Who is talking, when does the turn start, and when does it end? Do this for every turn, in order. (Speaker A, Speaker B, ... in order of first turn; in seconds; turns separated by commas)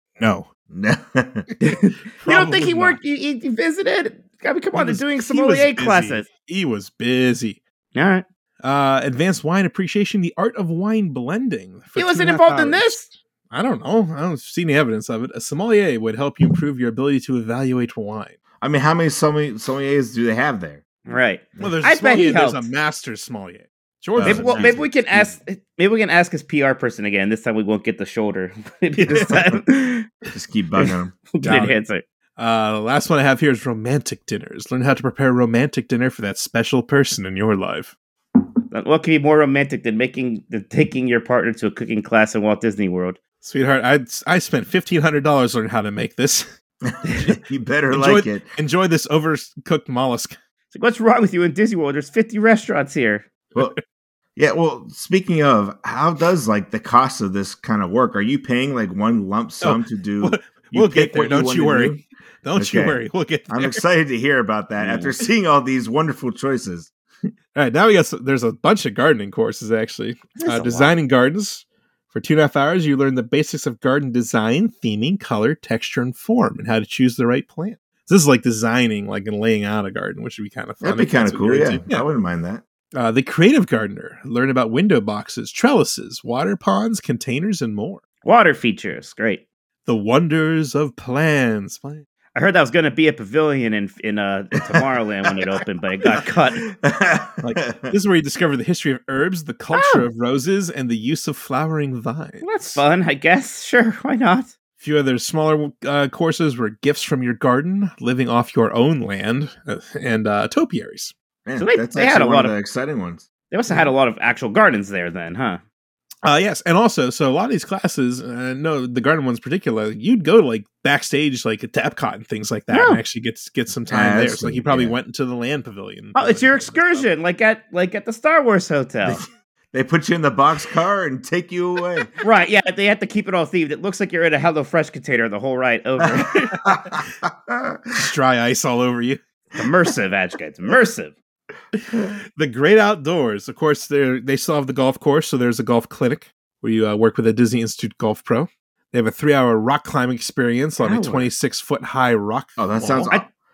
Speaker A: 0.2-0.5, Speaker B: 0.7-1.5, Speaker C: 1.6-6.3, Speaker A: 2.2-3.0, Speaker A: 4.7-7.6, Speaker C: 8.0-8.2, Speaker A: 8.6-18.4, Speaker C: 12.0-13.1, Speaker B: 18.6-20.9, Speaker C: 21.1-22.7, Speaker A: 21.6-24.9, Speaker B: 24.2-25.3, Speaker C: 24.2-30.1, Speaker A: 29.0-29.5, Speaker B: 30.3-31.2, Speaker C: 31.3-32.0, Speaker A: 31.4-31.8, Speaker A: 32.4-38.0, Speaker C: 38.7-43.2, Speaker A: 43.4-46.5, Speaker B: 46.9-48.5, Speaker A: 47.9-50.4, Speaker C: 50.7-53.3, Speaker B: 54.4-62.0, Speaker A: 59.6-63.8, Speaker B: 62.6-66.9, Speaker A: 67.5-82.0, Speaker C: 70.4-71.0, Speaker B: 80.8-82.6, Speaker A: 82.9-88.0, Speaker C: 88.2-89.4, Speaker A: 89.9-92.0, Speaker C: 92.3-96.7, Speaker B: 96.7-97.9, Speaker A: 97.4-102.8, Speaker C: 99.7-100.0, Speaker C: 102.4-104.5, Speaker A: 104.8-111.1, Speaker B: 111.5-113.3, Speaker C: 111.6-112.5, Speaker C: 113.5-115.6, Speaker A: 116.2-127.1, Speaker C: 122.7-123.0, Speaker B: 123.9-125.0, Speaker C: 126.2-129.2, Speaker B: 129.1-132.1, Speaker C: 132.2-136.5, Speaker B: 136.0-137.8, Speaker A: 138.0-139.2, Speaker C: 139.6-141.2, Speaker A: 141.8-153.1, Speaker C: 150.8-151.3, Speaker B: 152.6-153.3